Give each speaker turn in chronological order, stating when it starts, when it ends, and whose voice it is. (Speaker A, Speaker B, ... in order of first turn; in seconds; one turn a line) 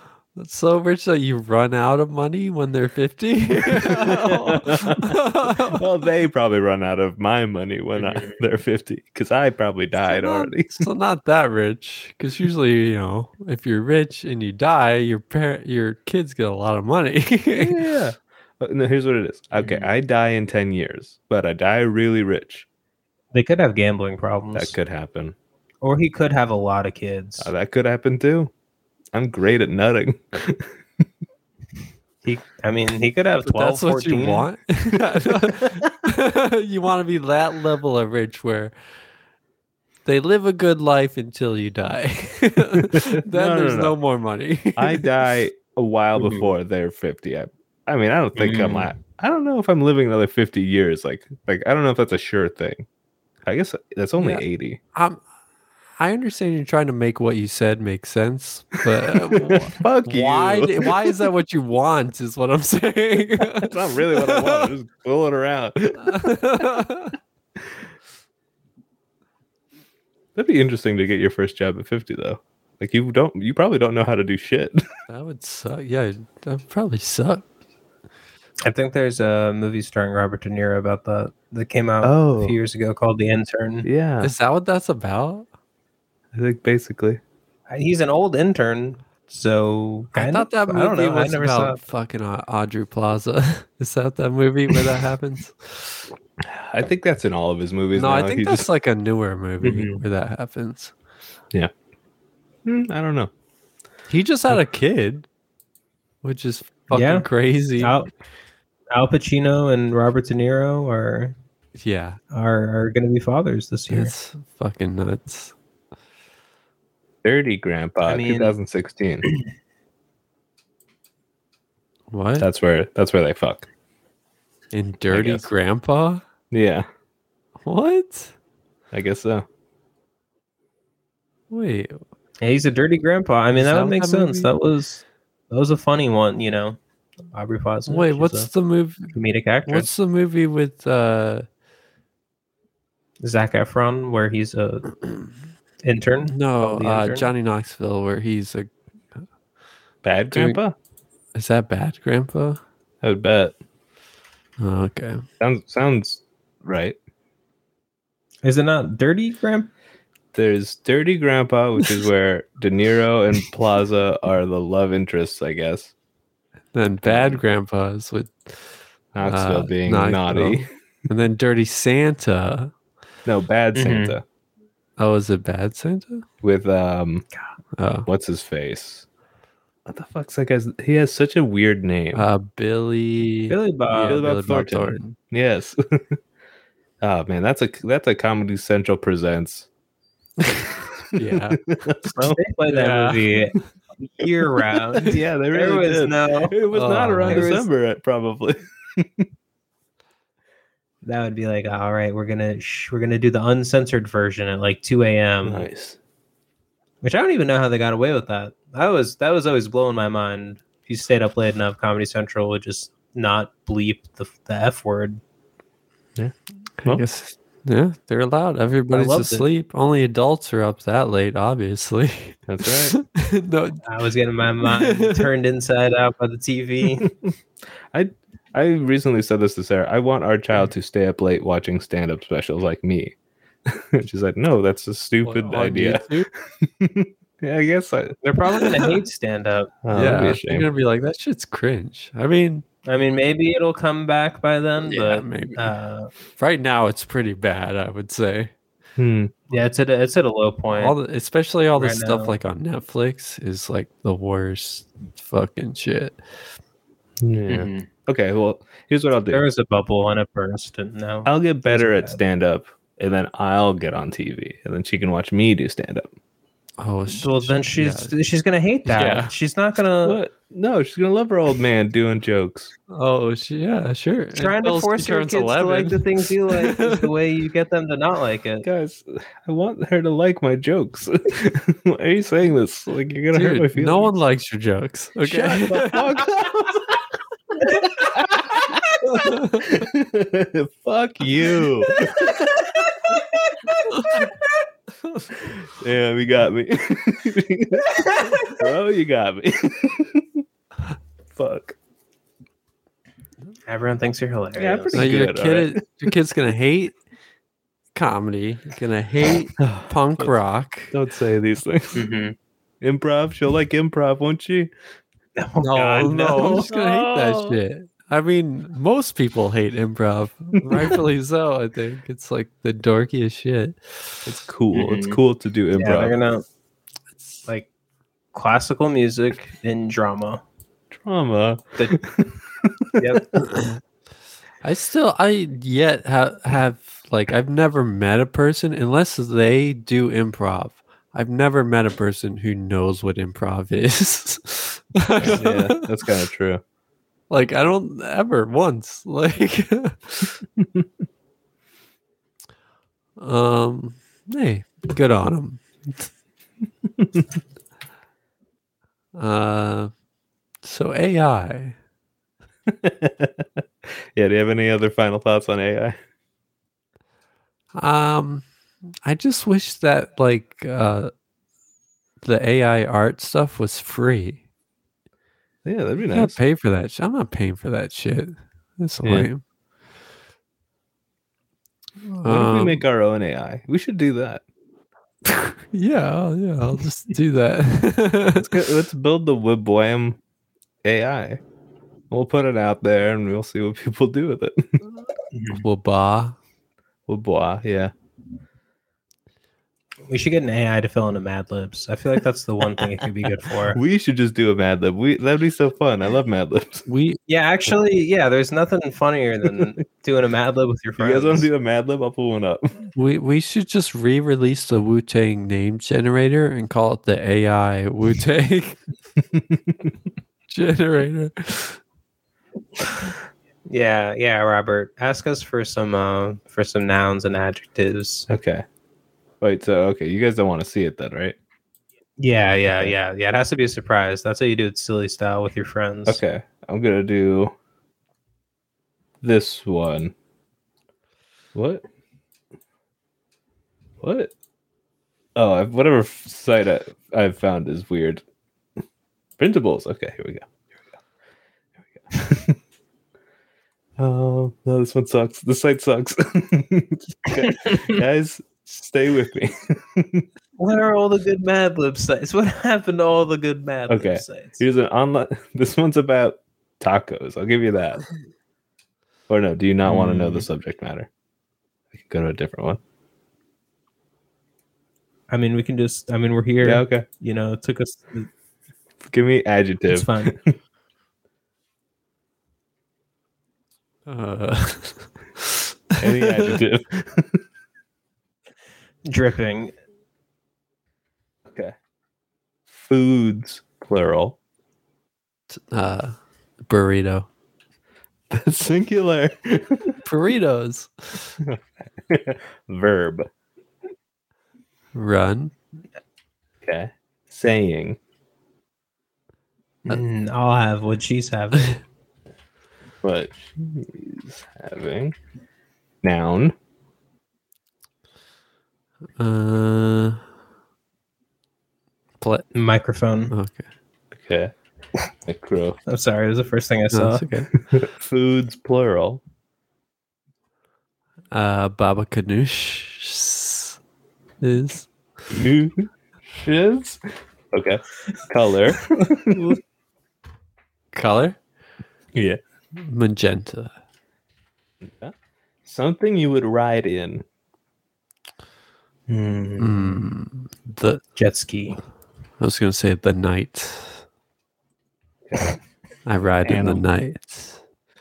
Speaker A: 0.3-5.8
Speaker B: 3.7-10.9
Speaker C: 8.0-8.4
Speaker A: 10.1-17.8
Speaker B: 17.5-22.6
Speaker C: 19.6-19.9
Speaker C: 23.3-24.7
Speaker B: 24.5-25.4
Speaker C: 25.8-27.5
Speaker B: 27.4-28.5
Speaker B: 29.1-30.7
Speaker C: 32.2-34.5
Speaker A: 33.4-38.7
Speaker B: 35.4-35.8
Speaker A: 40.0-45.1
Speaker B: 42.8-44.0
Speaker B: 44.8-52.9
Speaker C: 46.1-46.5
Speaker C: 48.4-48.9
Speaker B: 53.4-54.8
Speaker A: 54.2-55.2
Speaker A: 56.0-64.7
Speaker B: 59.3-61.2
Speaker B: 63.5-66.6
Speaker A: 66.0-67.1
Speaker B: 70.3-74.8
Speaker A: 75.1-77.5
Speaker C: 78.6-83.9
Speaker B: 82.0-82.5
Speaker B: 83.8-84.3
Speaker A: 84.2-85.5
Speaker B: 86.3-87.2
Speaker C: 87.7-91.8
Speaker A: 90.1-96.0
Speaker B: 96.4-98.7
Speaker A: 97.9-100.9
Speaker C: 99.6-100.0
Speaker B: 102.6-103.3
Speaker A: 104.1-105.3
Speaker A: 106.2-108.0
Speaker C: 106.9-107.3
Speaker C: 107.8-108.1
Speaker C: 108.9-111.3
Speaker A: 111.8-112.2
Speaker C: 112.3-114.1
Speaker A: 113.9-115.5
Speaker B: 117.2-119.3
Speaker C: 118.0-118.5
Speaker A: 122.1-122.5
Speaker B: 122.4-123.7
Speaker A: 124.7-126.2
Speaker B: 125.1-125.5
Speaker B: 126.5-126.9
Speaker A: 127.6-128.3
Speaker B: 128.9-129.4
Speaker A: 131.5-132.0
Speaker C: 132.4-136.8
Speaker A: 133.5-134.5
Speaker C: 137.3-138.5
Speaker A: 137.9-139.1
Speaker C: 139.1-139.9
Speaker A: 139.7-141.4
Speaker C: 143.2-145.0
Speaker C: 145.8-147.3
Speaker A: 146.3-148.7
Speaker B: 150.0-150.7
Speaker A: 150.3-150.6
Speaker A: 151.3-152.6
Speaker B: 153.0-153.5
Speaker A: 154.6-155.2
Speaker B: 155.4-157.0
Speaker C: 158.4-159.7
Speaker B: 160.3-165.9
Speaker A: 166.7-168.7
Speaker B: 167.0-167.4
Speaker B: 169.1-170.7
Speaker A: 169.2-172.7
Speaker B: 173.2-174.2
Speaker C: 173.7-174.1
Speaker A: 175.0-176.2
Speaker B: 176.4-177.2
Speaker A: 177.8-178.1
Speaker B: 178.1-179.1
Speaker B: 179.8-182.2
Speaker A: 182.1-185.2
Speaker C: 183.5-184.2
Speaker B: 183.9-186.2
Speaker B: 187.0-189.7
Speaker A: 190.4-191.6
Speaker B: 191.0-192.4
Speaker C: 192.2-193.6
Speaker A: 192.7-193.3
Speaker C: 194.1-196.6
Speaker B: 194.9-199.2
Speaker A: 196.7-197.5
Speaker C: 197.3-197.6
Speaker C: 201.0-205.7
Speaker B: 205.4-206.0
Speaker C: 207.0-215.2
Speaker B: 216.2-217.0
Speaker A: 216.8-223.8
Speaker C: 218.9-219.4
Speaker B: 222.5-222.9
Speaker C: 223.8-227.1
Speaker A: 224.6-225.2
Speaker B: 227.9-233.1
Speaker B: 233.7-238.2
Speaker A: 235.2-236.3
Speaker C: 238.2-239.7
Speaker A: 238.6-238.9
Speaker B: 239.8-240.7
Speaker A: 239.9-242.6
Speaker C: 242.8-246.1
Speaker A: 244.8-245.7
Speaker A: 246.3-248.5
Speaker B: 249.0-249.3
Speaker C: 249.5-250.9
Speaker A: 250.7-256.2
Speaker C: 251.8-252.3
Speaker B: 257.2-259.4
Speaker C: 257.5-257.9
Speaker C: 259.3-262.2
Speaker B: 261.2-266.1
Speaker A: 266.8-268.1
Speaker C: 267.1-270.2
Speaker A: 268.9-269.3
Speaker B: 270.0-272.7
Speaker A: 272.9-277.0
Speaker C: 274.4-278.6
Speaker B: 278.6-284.1
Speaker A: 283.3-286.0
Speaker C: 285.3-286.5
Speaker B: 285.6-287.0
Speaker B: 287.6-292.7
Speaker A: 289.1-289.6
Speaker C: 291.9-294.2
Speaker B: 295.4-297.9
Speaker C: 297.9-298.6
Speaker B: 298.5-300.4
Speaker B: 301.3-301.8
Speaker C: 303.7-305.1
Speaker B: 304.6-305.8
Speaker A: 304.9-306.9
Speaker A: 307.9-310.9
Speaker B: 309.6-310.3
Speaker B: 310.9-312.1
Speaker C: 311.9-312.3
Speaker B: 312.8-314.7
Speaker C: 315.4-316.7
Speaker A: 315.6-324.3
Speaker B: 316.4-317.6
Speaker B: 324.2-326.1
Speaker C: 324.7-325.2
Speaker C: 325.7-326.4
Speaker C: 328.3-330.4
Speaker B: 330.9-333.2
Speaker C: 333.0-333.4
Speaker A: 333.4-333.7
Speaker A: 334.6-345.8
Speaker B: 345.2-346.6
Speaker A: 347.3-350.3
Speaker B: 350.6-350.9
Speaker A: 353.2-356.1
Speaker A: 359.1-359.9
Speaker A: 360.6-361.8
Speaker B: 362.7-363.6
Speaker B: 364.1-366.0
Speaker A: 367.8-368.4
Speaker A: 369.0-371.1
Speaker A: 372.2-374.4
Speaker B: 375.6-376.4
Speaker A: 376.0-379.4
Speaker B: 379.0-379.3
Speaker A: 382.0-382.8
Speaker B: 382.2-384.4
Speaker A: 385.3-388.5
Speaker B: 388.4-390.2
Speaker B: 390.8-391.4
Speaker B: 392.1-394.9
Speaker C: 395.3-395.6
Speaker A: 395.6-396.4
Speaker B: 397.1-397.9
Speaker C: 400.1-403.8
Speaker B: 403.7-406.9
Speaker A: 406.9-407.2
Speaker C: 407.3-411.5
Speaker B: 411.0-412.9
Speaker A: 412.9-418.8
Speaker B: 419.3-419.9
Speaker A: 420.5-421.8
Speaker C: 423.7-428.3
Speaker B: 428.3-428.6
Speaker B: 429.4-431.4
Speaker C: 432.2-436.2
Speaker B: 432.7-432.9
Speaker B: 436.1-437.5
Speaker B: 439.2-440.1
Speaker B: 441.5-441.8
Speaker B: 444.0-444.3
Speaker B: 445.4-448.2
Speaker B: 449.4-450.5
Speaker B: 452.1-452.6
Speaker B: 454.0-460.3
Speaker C: 457.4-458.0
Speaker C: 460.6-464.6
Speaker B: 463.9-468.0
Speaker B: 469.3-471.1
Speaker C: 469.8-470.5
Speaker B: 471.9-472.8
Speaker C: 475.3-478.3
Speaker B: 476.6-477.1
Speaker B: 479.1-480.5
Speaker C: 479.9-480.3
Speaker A: 484.1-486.6
Speaker B: 486.0-487.4
Speaker C: 489.1-489.7
Speaker B: 492.7-494.4
Speaker A: 495.7-496.1
Speaker A: 496.7-497.3
Speaker B: 498.3-499.9
Speaker A: 500.0-501.3
Speaker B: 501.4-503.3
Speaker A: 504.9-505.5
Speaker B: 506.6-508.0
Speaker C: 509.8-511.8
Speaker B: 513.0-515.1
Speaker B: 516.0-516.5
Speaker A: 519.2-520.2
Speaker A: 522.2-522.5
Speaker C: 522.5-523.3
Speaker A: 523.3-523.6
Speaker B: 524.1-524.5
Speaker B: 525.2-525.8
Speaker C: 525.9-527.3
Speaker A: 526.9-527.5
Speaker B: 527.7-529.2
Speaker A: 531.3-533.8
Speaker A: 534.4-534.9
Speaker B: 535.3-539.6
Speaker A: 540.9-541.4
Speaker B: 542.1-542.4
Speaker A: 542.8-543.7
Speaker B: 544.8-545.1
Speaker B: 545.6-547.2
Speaker C: 549.1-550.0
Speaker A: 549.6-551.0
Speaker C: 551.1-551.8
Speaker A: 552.4-554.0
Speaker A: 556.0-557.6
Speaker B: 556.4-556.8